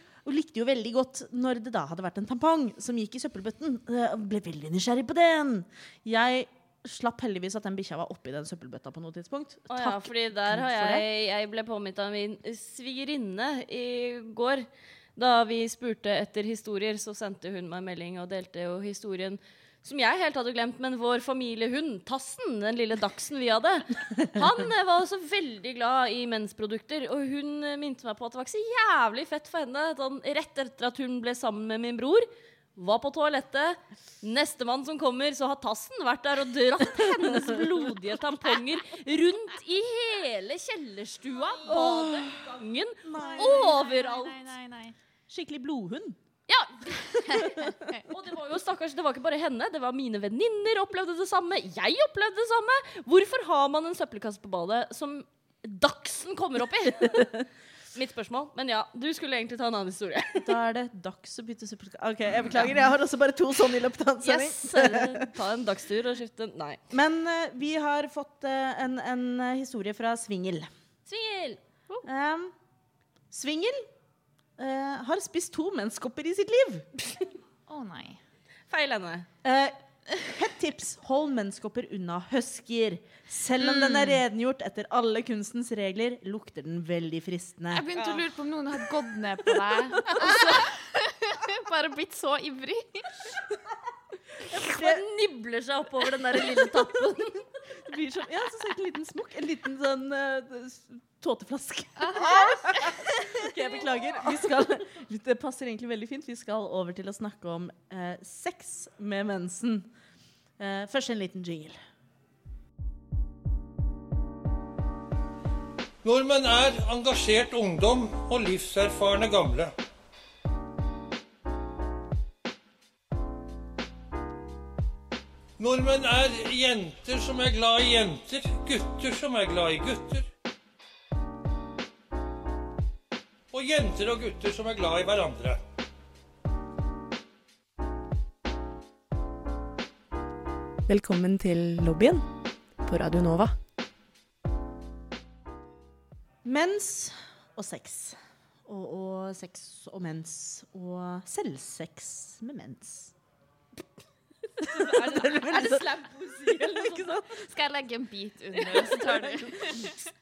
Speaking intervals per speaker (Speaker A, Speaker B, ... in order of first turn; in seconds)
Speaker A: 0.2-11.0, 41.7-43.8, 45.3-46.2, 60.4-65.2, 66.9-70.7, 72.0-72.5, 73.3-73.9, 74.6-76.9, 79.4-87.9, 94.8-95.0, 97.9-109.9, 110.6-111.8, 146.4-153.1, 154.6-155.9, 156.6-157.3
Speaker B: 9.7-44.4, 46.5-47.5, 48.1-57.4, 57.9-60.5, 64.2-66.8, 71.1-71.6, 78.7-79.3, 88.0-88.2, 94.6-97.5, 154.6-157.2, 158.7-159.5
Speaker C: 43.2-45.0, 47.3-48.0, 77.7-78.2, 83.6-84.2, 87.7-93.3, 102.0-102.9, 157.4-160.0
Speaker D: 116.0-119.7, 125.6-130.3, 133.5-135.6
Speaker E: 140.9-142.3, 142.8-143.6